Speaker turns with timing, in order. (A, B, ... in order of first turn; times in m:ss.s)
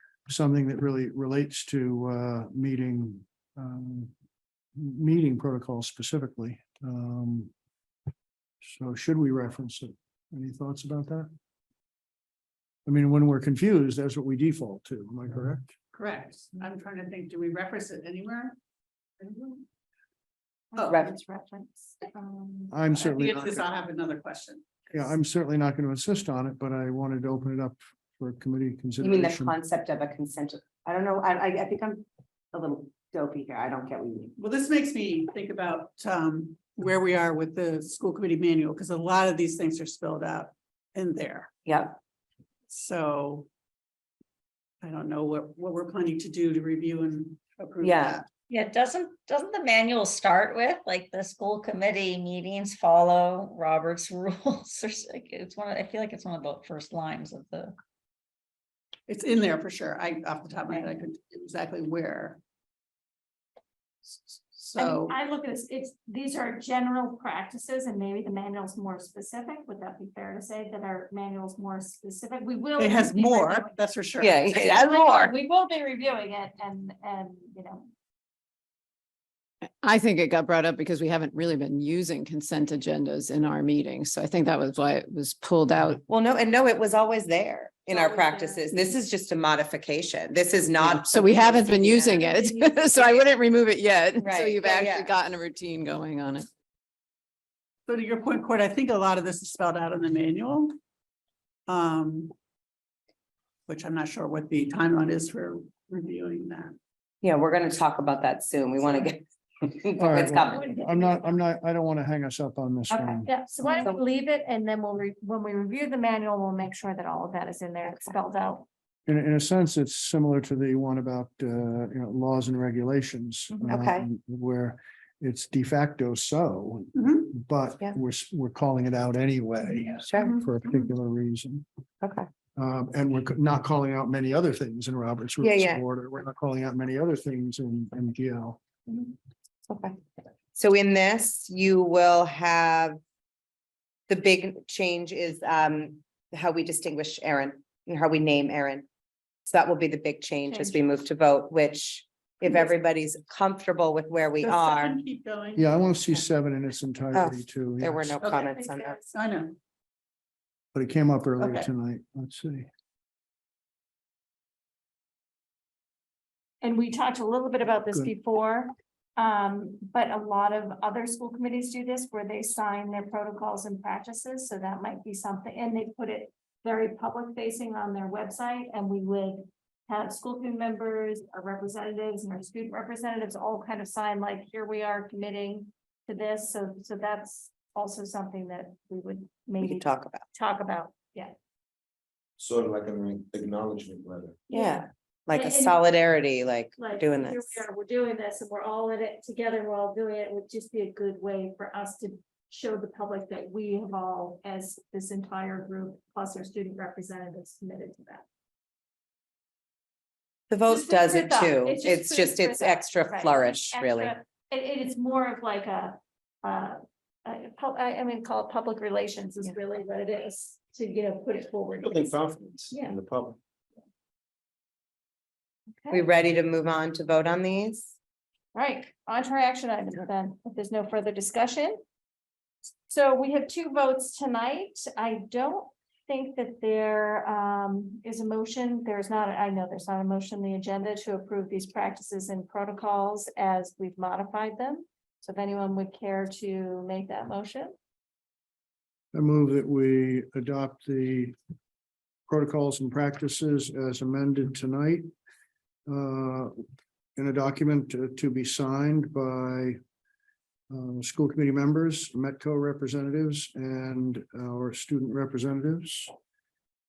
0:00.3-0:04.1 A
0:04.8-0:07.5 A
0:08.6-0:11.3 A
0:12.8-0:15.7 A
0:15.9-0:18.5 B
0:19.2-0:19.6 B
0:20.7-0:22.8 C
0:20.8-0:21.1 D
0:22.7-0:23.6 A
0:22.9-0:24.9 B
0:24.9-0:29.6 A
0:29.0-0:34.3 D
0:34.4-0:41.5 B
0:41.6-0:42.0 D
0:42.7-0:43.5 B
0:44.8-0:48.3 B
0:47.8-0:48.2 D
0:48.5-0:57.8 E
0:59.1-1:02.4 B
1:04.0-1:05.2 B
1:04.8-1:13.7 C
1:12.8-1:14.6 B
1:14.2-1:15.3 D
1:14.4-1:17.9 C
1:19.8-1:26.0 F
1:26.1-1:32.1 D
1:27.9-1:28.6 C
1:30.8-1:36.5 F
1:31.4-1:33.4 C
1:34.2-1:35.1 D
1:37.9-1:40.8 B
1:41.7-1:42.3 B
1:43.7-1:46.7 B
1:47.2-1:50.7 D
1:50.0-1:53.3 A
1:50.5-1:51.4 C
1:52.9-1:58.6 C
1:53.0-1:54.0 D
1:59.1-2:11.6 A
2:03.5-2:04.1 D
2:07.0-2:07.3 B
2:10.1-2:10.4 D
2:12.0-2:12.3 D
2:12.6-2:18.6 A
2:15.4-2:15.8 D
2:19.7-2:20.0 D
2:20.5-2:23.0 D
2:24.1-2:28.8 D
2:29.4-2:35.0 D
2:30.5-2:30.8 C
2:34.4-2:36.1 B
2:35.6-2:38.2 A
2:37.1-2:39.0 D
2:38.2-2:38.5 B
2:38.5-2:39.1 C
2:39.1-2:39.6 B
2:40.7-2:42.7 A
2:41.4-2:41.7 B
2:46.6-3:11.3 C
3:09.6-3:10.2 D
3:12.4-3:14.4 G
3:14.5-3:15.8 C
3:14.5-3:17.6 D
3:16.8-3:28.2 C
3:30.5-3:34.1 D
3:30.7-3:42.2 C
3:41.8-3:43.4 G
3:42.7-3:43.0 C
3:45.8-3:46.0 C
3:45.9-3:48.0 D
3:48.5-3:51.8 C
3:52.9-4:07.7 C
4:09.1-4:11.3 A
4:12.3-4:15.1 A
4:15.9-4:16.5 A
4:17.2-4:19.8 A
4:20.7-4:26.1 A